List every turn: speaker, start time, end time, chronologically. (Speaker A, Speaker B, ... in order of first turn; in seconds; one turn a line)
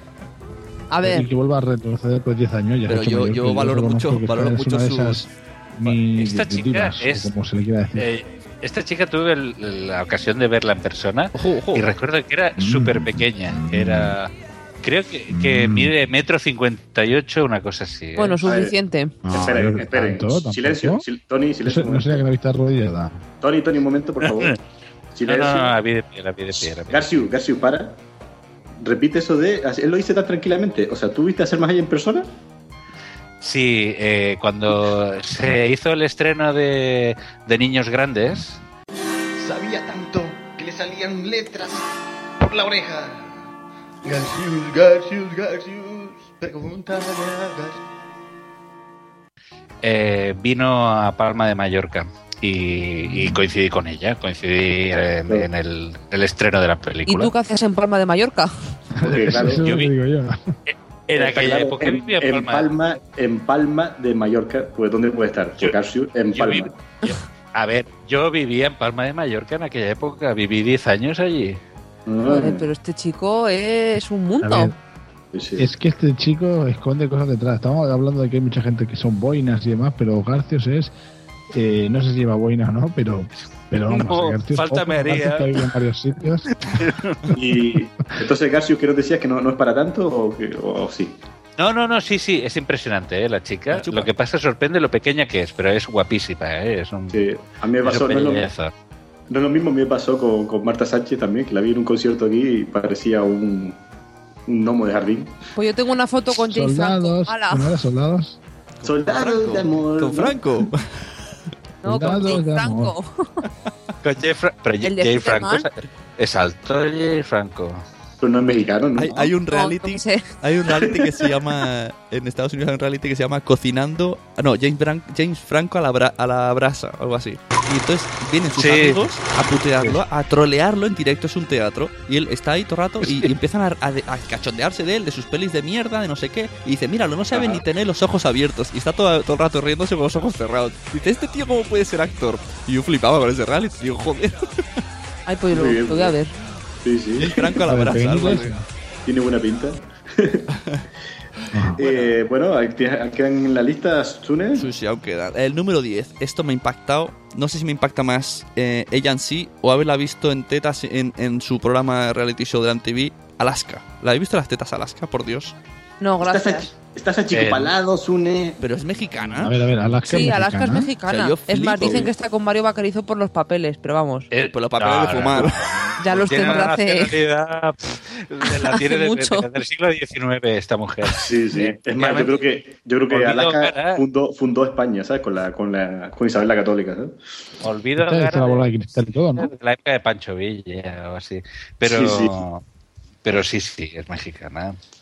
Speaker A: 0.9-1.3
Speaker B: 1.0-8.1
Speaker C: 2.9-5.2
Speaker D: 5.8-7.3
Speaker D: 8.0-18.4
Speaker C: 11.3-11.9
Speaker B: 12.6-14.2
Speaker B: 15.3-15.9
Speaker A: 18.2-19.2
Speaker E: 18.4-18.7
Speaker B: 19.2-21.0
Speaker E: 19.3-22.2
Speaker B: 21.7-23.2
Speaker E: 23.4-24.6
Speaker D: 24.2-24.6
Speaker E: 25.1-25.8
Speaker D: 25.3-27.1
Speaker E: 26.9-28.0
Speaker E: 28.8-32.3
Speaker D: 33.4-38.6
Speaker F: 39.4-41.9
Speaker F: 42.4-43.5
Speaker F: 44.0-47.8
Speaker D: 49.8-57.3
Speaker B: 53.0-53.4
Speaker A: 57.1-58.5
Speaker B: 59.0-60.5
Speaker E: 59.0-59.7
Speaker D: 59.4-59.9
Speaker D: 60.7-62.7
Speaker E: 61.1-66.7
Speaker D: 66.3-71.6
Speaker E: 72.1-72.7
Speaker A: 72.3-74.7
Speaker B: 74.4-74.8
Speaker E: 75.3-75.7
Speaker B: 75.6-80.9
Speaker B: 81.5-86.5
Speaker D: 83.9-85.7
Speaker D: 86.7-87.3
Speaker E: 87.3-91.2
Speaker D: 91.6-97.2
Speaker C: 93.7-94.1
Speaker E: 97.1-98.5
Speaker D: 97.8-98.7
Speaker E: 99.3-103.8
Speaker E: 104.5-105.3
Speaker A: 105.6-107.7
Speaker B: 106.4-108.4
Speaker C: 108.8-111.0
Speaker E: 108.8-110.4
Speaker A: 111.8-113.1
Speaker B: 111.8-113.0
Speaker D: 114.0-117.8
Speaker A: 114.8-115.7
Speaker E: 118.2-119.3
Speaker C: 119.0-144.5
Speaker A: 119.5-120.2
Speaker D: 128.5-129.0
Speaker D: 133.0-133.3
Speaker E: 137.3-137.6
Speaker A: 145.3-146.3
Speaker E: 145.5-146.2
Speaker E: 146.8-147.6
Speaker C: 147.2-148.5
Speaker B: 147.6-148.7
Speaker E: 149.1-150.5
Speaker B: 151.5-151.8
Speaker E: 151.8-154.7
Speaker C: 151.8-152.1
Speaker C: 154.6-165.6
Speaker A: 166.0-166.7
Speaker E: 166.2-168.6
Speaker D: 167.3-167.8
Speaker C: 168.6-169.6
Speaker B: 169.3-170.9
Speaker A: 170.1-174.3
Speaker C: 171.1-172.1
Speaker E: 171.8-172.1
Speaker D: 174.3-182.5
Speaker C: 174.4-175.6
Speaker A: 176.0-177.2
Speaker A: 178.5-179.5
Speaker E: 181.2-187.2
Speaker D: 183.1-184.1
Speaker D: 187.6-188.7
Speaker B: 188.0-189.5
Speaker D: 189.3-192.6
Speaker E: 191.8-192.4
Speaker D: 193.2-194.8